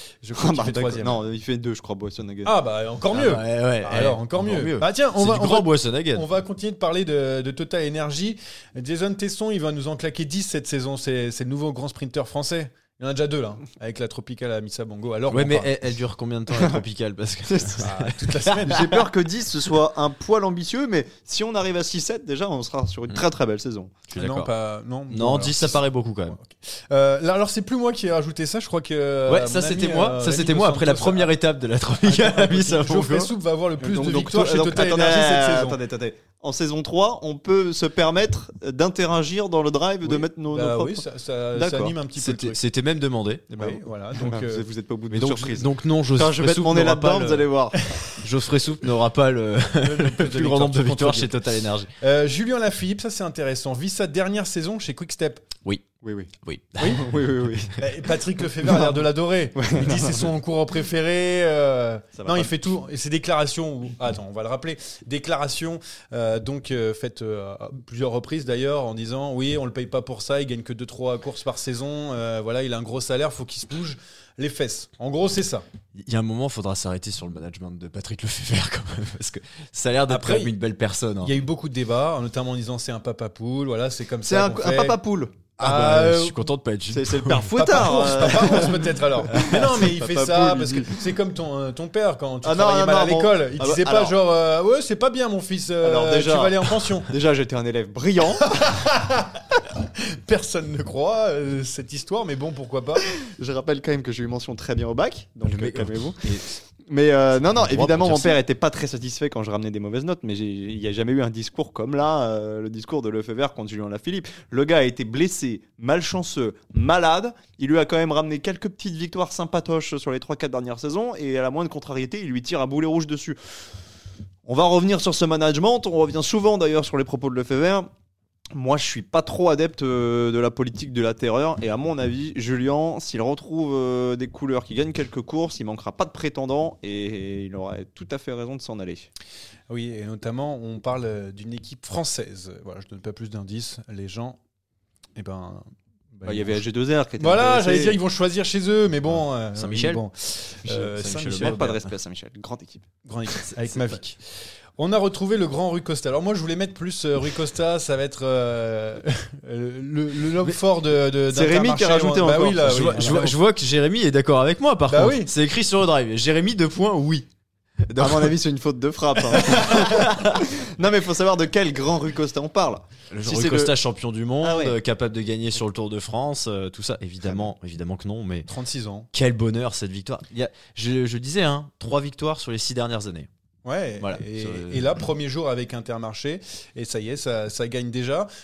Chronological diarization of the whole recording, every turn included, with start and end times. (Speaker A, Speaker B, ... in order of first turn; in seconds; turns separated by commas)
Speaker A: 0.2-1.2, Speaker B: 0.4-2.5, Speaker A: 2.4-15.7, Speaker C: 3.1-6.2, Speaker C: 15.3-18.7, Speaker B: 16.5-16.8, Speaker B: 17.5-17.8, Speaker A: 17.8-19.1, Speaker B: 18.6-23.9, Speaker C: 24.1-24.5, Speaker A: 24.1-31.3, Speaker C: 25.1-26.4, Speaker C: 29.3-33.3, Speaker A: 32.0-35.8, Speaker B: 33.8-42.0, Speaker A: 40.0-42.6, Speaker C: 42.2-43.4, Speaker B: 43.5-47.8, Speaker A: 43.5-44.6, Speaker C: 45.1-47.5, Speaker A: 47.7-48.0, Speaker C: 48.2-51.9, Speaker A: 49.8-51.3, Speaker A: 52.0-55.5, Speaker B: 56.0-56.3, Speaker C: 56.4-57.0, Speaker B: 56.8-57.7, Speaker A: 57.8-75.6, Speaker B: 59.5-60.3, Speaker B: 62.1-62.5, Speaker C: 76.0-81.3, Speaker A: 80.1-80.5, Speaker A: 81.2-85.0, Speaker B: 84.2-85.4, Speaker A: 85.6-86.4, Speaker C: 85.6-88.3, Speaker B: 86.9-91.0, Speaker A: 87.5-97.1, Speaker B: 92.4-94.2, Speaker B: 95.8-96.6, Speaker B: 97.1-98.7, Speaker A: 98.6-99.3, Speaker A: 100.2-103.0, Speaker B: 103.2-106.2, Speaker C: 105.4-106.5, Speaker B: 106.9-123.4, Speaker C: 107.4-108.4, Speaker B: 124.5-127.9, Speaker B: 128.5-139.1, Speaker A: 139.7-144.4, Speaker A: 145.2-146.6, Speaker B: 146.2-148.0, Speaker A: 147.2-151.8, Speaker C: 149.6-150.0, Speaker C: 150.7-151.8, Speaker B: 151.3-152.8, Speaker A: 153.0-154.2, Speaker C: 153.6-154.0, Speaker A: 154.8-163.4, Speaker B: 161.3-163.3, Speaker C: 162.9-167.2, Speaker A: 164.9-165.3, Speaker C: 167.9-168.3, Speaker B: 167.9-173.7, Speaker C: 169.7-170.3, Speaker C: 173.1-178.5, Speaker B: 174.4-174.8, Speaker A: 178.5-179.1, Speaker C: 179.1-183.3, Speaker A: 183.6-188.3, Speaker C: 184.0-184.8